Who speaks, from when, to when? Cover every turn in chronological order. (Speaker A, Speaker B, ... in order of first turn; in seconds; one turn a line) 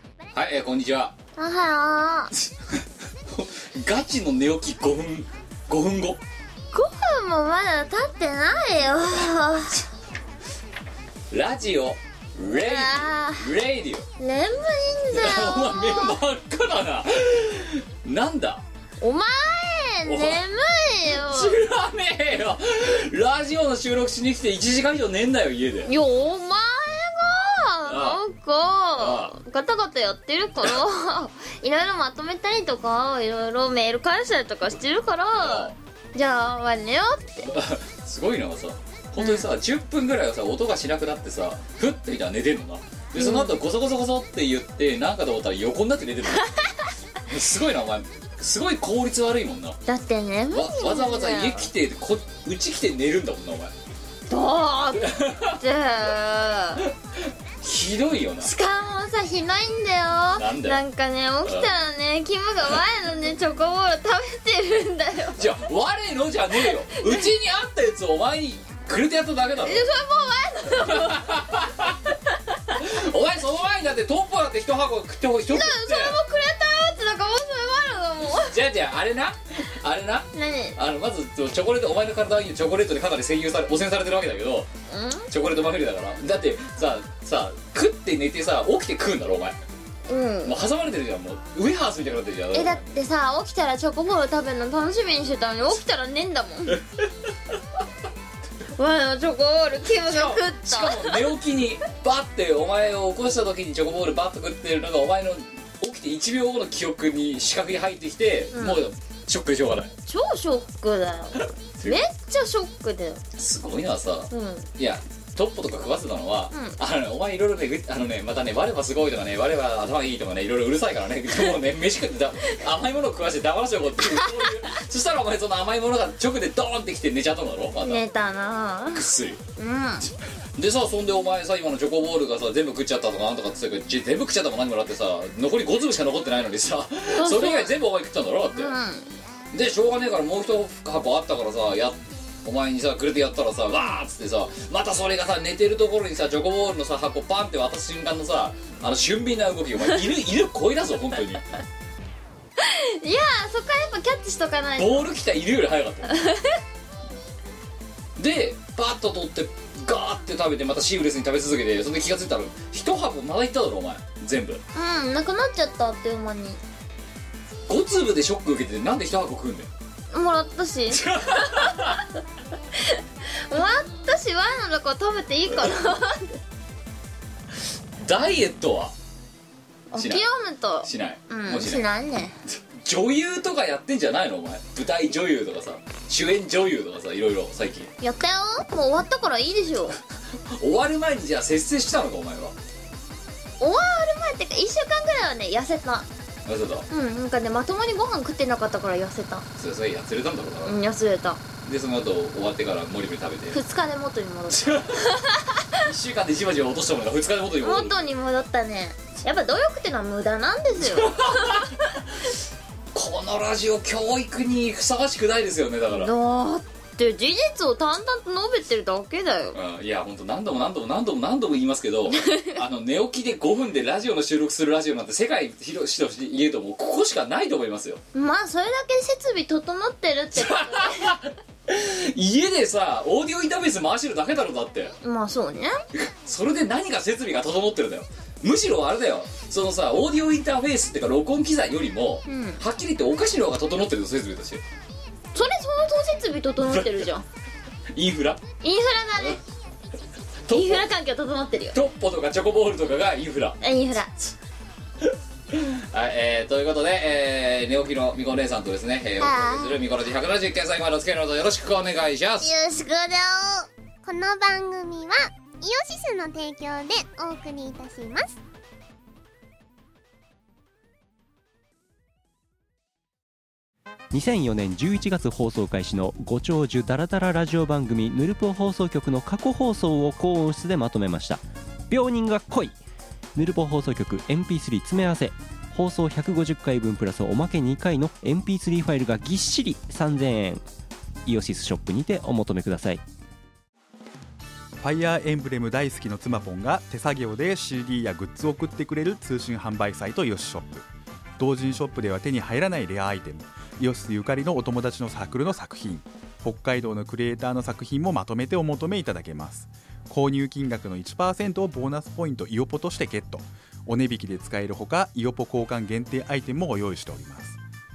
Speaker A: 0.3-1.1
Speaker B: 1.4-2.3
Speaker A: 3.3-6.2
Speaker B: 6.7-9.8
Speaker A: 11.3-14.1
Speaker B: 12.6-13.5
Speaker B: 14.2-16.1
Speaker A: 15.2-18.6
Speaker B: 19.0-21.6
Speaker A: 20.1-20.4
Speaker A: 21.1-25.9
Speaker B: 25.9-37.5
Speaker A: 27.9-28.2
Speaker A: 29.0-29.3
Speaker A: 35.4-35.7
Speaker A: 37.5-46.5
Speaker B: 39.2-39.5
Speaker B: 43.2-43.6
Speaker A: 47.3-49.8
Speaker B: 49.9-51.6
Speaker A: 50.5-53.7
Speaker B: 54.3-56.8
Speaker A: 55.0-55.6
Speaker A: 57.6-58.5
Speaker B: 58.4-65.4
Speaker A: 60.4-60.8
Speaker A: 61.5-61.7
Speaker A: 65.4-69.9
Speaker B: 66.7-67.3
Speaker B: 69.6-71.4
Speaker A: 70.8-72.0
Speaker A: 72.8-76.2
Speaker B: 75.5-78.5
Speaker A: 78.5-84.7
Speaker B: 80.3-80.8
Speaker B: 84.9-85.3
Speaker A: 85.3-89.6
Speaker B: 90.1-90.6
Speaker A: 90.5-92.8
Speaker B: 92.5-96.8
Speaker B: 98.8-101.2
Speaker A: 100.0-109.9
Speaker B: 108.5-108.8
Speaker B: 110.0-113.2
Speaker A: 111.8-112.1
Speaker A: 113.4-128.0
Speaker B: 114.3-114.7
Speaker B: 127.8-130.1
Speaker A: 128.9-129.4
Speaker A: 130.6-138.8
Speaker B: 137.1-137.7
Speaker B: 138.5-139.1
Speaker A: 139.5-151.4
Speaker B: 152.6-155.1
Speaker A: 154.8-156.2
Speaker B: 156.1-156.6
Speaker A: 158.2-164.6
Speaker B: 164.7-166.6
Speaker A: 167.7-169.7
Speaker B: 170.1-172.0
Speaker A: 170.9-172.0
Speaker B: 172.9-176.3
Speaker A: 178.0-178.9
Speaker B: 179.9-182.4
Speaker A: 179.9-180.2
Speaker A: 180.8-181.9
Speaker A: 182.5-187.9
Speaker B: 188.0-190.0
Speaker A: 190.5-192.6
Speaker B: 193.6-196.1
Speaker A: 196.5-196.9
Speaker B: 196.9-199.4
Speaker A: 199.6-200.8
Speaker B: 200.7-201.4
Speaker A: 201.6-203.6
Speaker B: 203.5-205.6
Speaker A: 204.5-205.2
Speaker A: 205.8-208.0
Speaker B: 207.6-211.7
Speaker A: 210.8-211.8
Speaker A: 212.9-216.1
Speaker B: 215.9-219.6
Speaker A: 219.5-228.0
Speaker B: 222.3-222.5
Speaker B: 228.1-231.2
Speaker A: 230.3-235.0
Speaker B: 235.0-235.8
Speaker A: 235.9-244.6
Speaker B: 242.3-242.6
Speaker B: 245.3-247.2
Speaker A: 246.7-247.0
Speaker A: 247.9-248.4
Speaker B: 248.6-249.4
Speaker A: 250.5-250.9
Speaker B: 250.5-251.8
Speaker A: 251.7-253.6
Speaker B: 253.6-254.1
Speaker A: 255.5-262.5
Speaker B: 259.2-259.8
Speaker B: 262.4-263.7
Speaker C: 264.0-268.4
Speaker D: 274.1-282.8
Speaker D: 283.4-290.6
Speaker D: 291.3-293.0
Speaker E: 294.8-300.9
Speaker E: 301.4-317.6